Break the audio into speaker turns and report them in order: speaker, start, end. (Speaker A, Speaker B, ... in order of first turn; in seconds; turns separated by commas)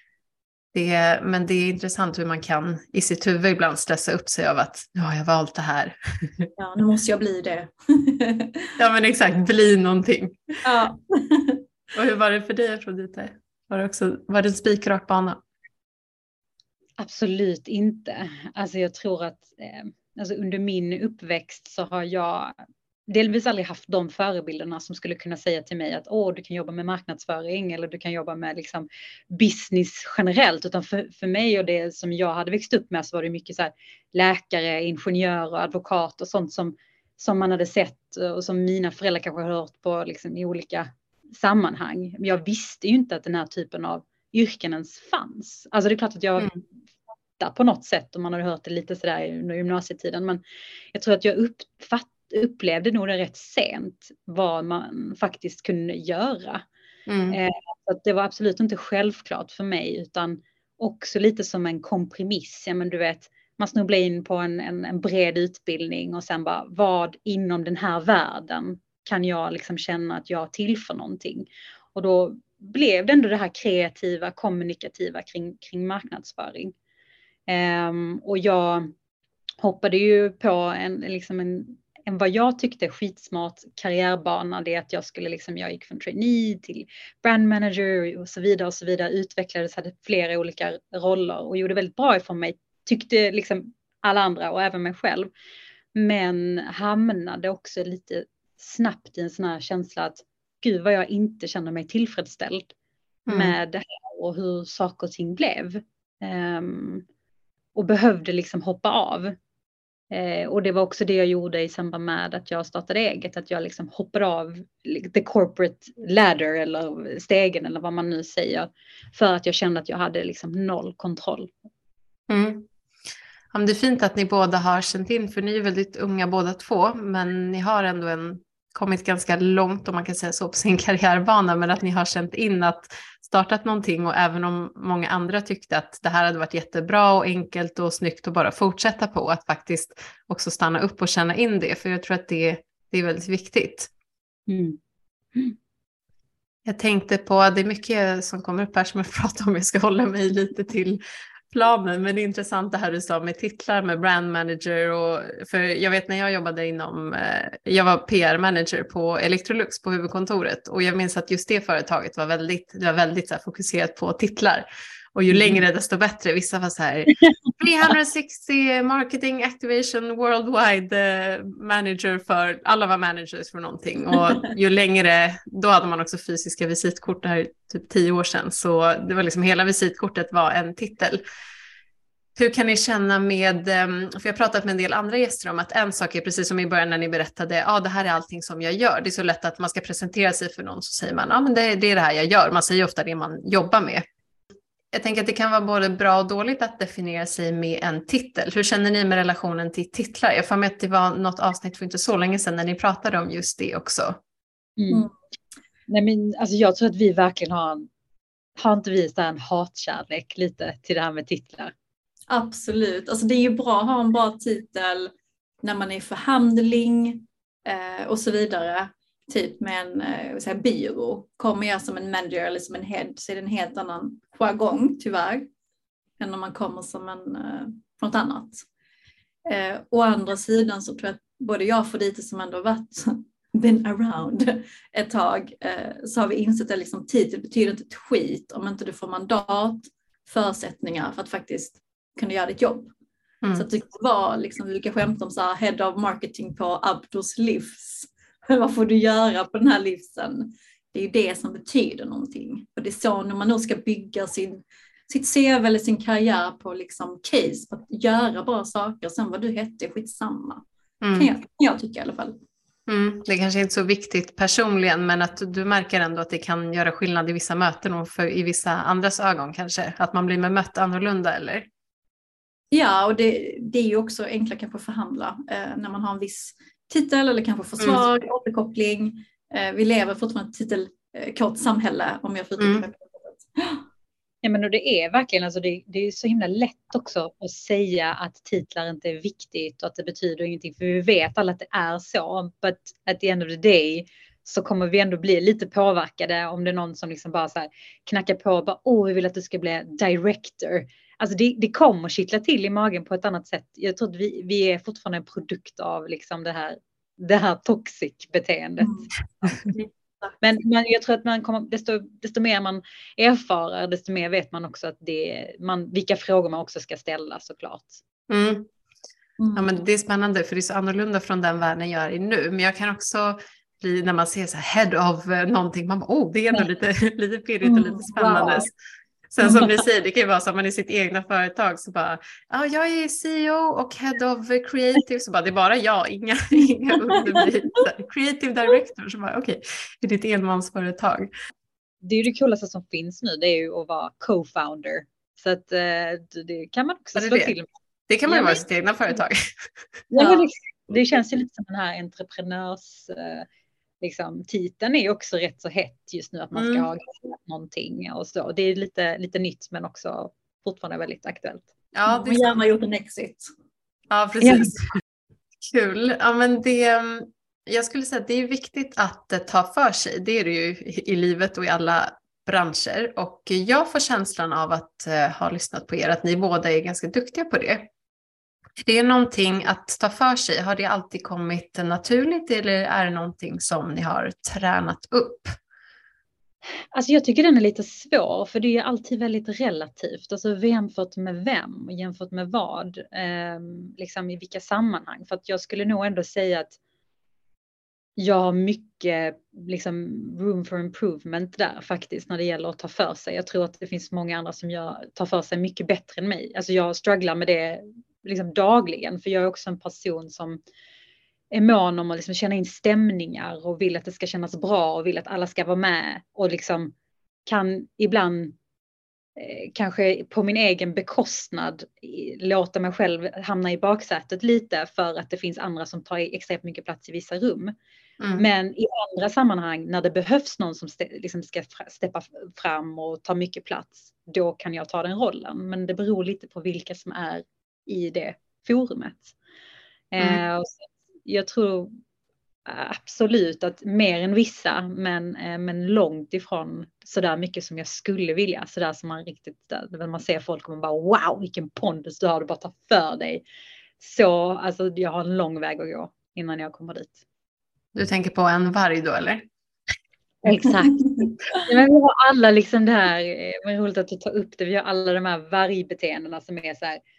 Speaker A: 0.7-6.5, Speaker B: 6.6-8.7, Speaker A: 8.8-10.4, Speaker B: 10.6-11.6, Speaker A: 11.9-15.4, Speaker C: 17.0-22.6, Speaker C: 23.1-46.6, Speaker C: 47.4-50.4, Speaker C: 50.9-56.6, Speaker A: 57.1-57.4, Speaker C: 57.3-76.7, Speaker C: 77.5-78.9, Speaker C: 79.6-95.3, Speaker C: 95.9-102.7, Speaker A: 103.3-103.5, Speaker C: 103.3-107.0, Speaker C: 107.7-109.4, Speaker C: 110.1-121.5, Speaker A: 122.3-122.7, Speaker A: 123.5-143.9, Speaker C: 144.5-144.8, Speaker A: 146.6-181.2, Speaker C: 165.3-165.6, Speaker A: 182.3-194.0, Speaker A: 194.9-204.2, Speaker C: 204.8-205.1, Speaker C: 205.9-207.9, Speaker C: 208.6-211.7, Speaker B: 212.3-215.1, Speaker B: 215.6-225.5, Speaker B: 226.2-228.6, Speaker B: 229.4-242.9, Speaker B: 243.5-260.6, Speaker A: 261.0-261.3, Speaker B: 261.1-262.4, Speaker A: 262.9-271.7, Speaker B: 272.7-283.8, Speaker A: 277.8-278.1, Speaker A: 282.6-282.8, Speaker C: 284.4-309.6, Speaker B: 308.8-309.1, Speaker B: 309.6-310.4, Speaker C: 310.4-318.0, Speaker A: 318.3-318.7, Speaker B: 319.4-319.7, Speaker A: 319.5-328.7, Speaker B: 327.6-328.7, Speaker A: 329.3-341.3, Speaker B: 329.4-329.8, Speaker B: 337.1-337.8, Speaker C: 342.0-347.7, Speaker A: 347.1-347.5, Speaker A: 348.1-349.7, Speaker C: 348.2-348.6, Speaker C: 350.1-353.4, Speaker B: 350.1-350.4, Speaker C: 354.0-361.7, Speaker A: 356.5-356.9, Speaker A: 361.9-362.6, Speaker B: 362.1-363.5, Speaker A: 364.1-364.9, Speaker C: 364.4-364.8, Speaker A: 365.6-377.9, Speaker A: 378.8-385.6, Speaker C: 386.9-396.8, Speaker C: 398.2-410.6, Speaker C: 411.5-416.9, Speaker C: 417.4-418.5, Speaker C: 419.4-427.7, Speaker A: 428.2-428.4, Speaker C: 428.4-439.3, Speaker C: 440.1-441.9, Speaker C: 442.6-453.4, Speaker C: 454.0-457.2, Speaker A: 457.9-459.4, Speaker C: 460.4-467.0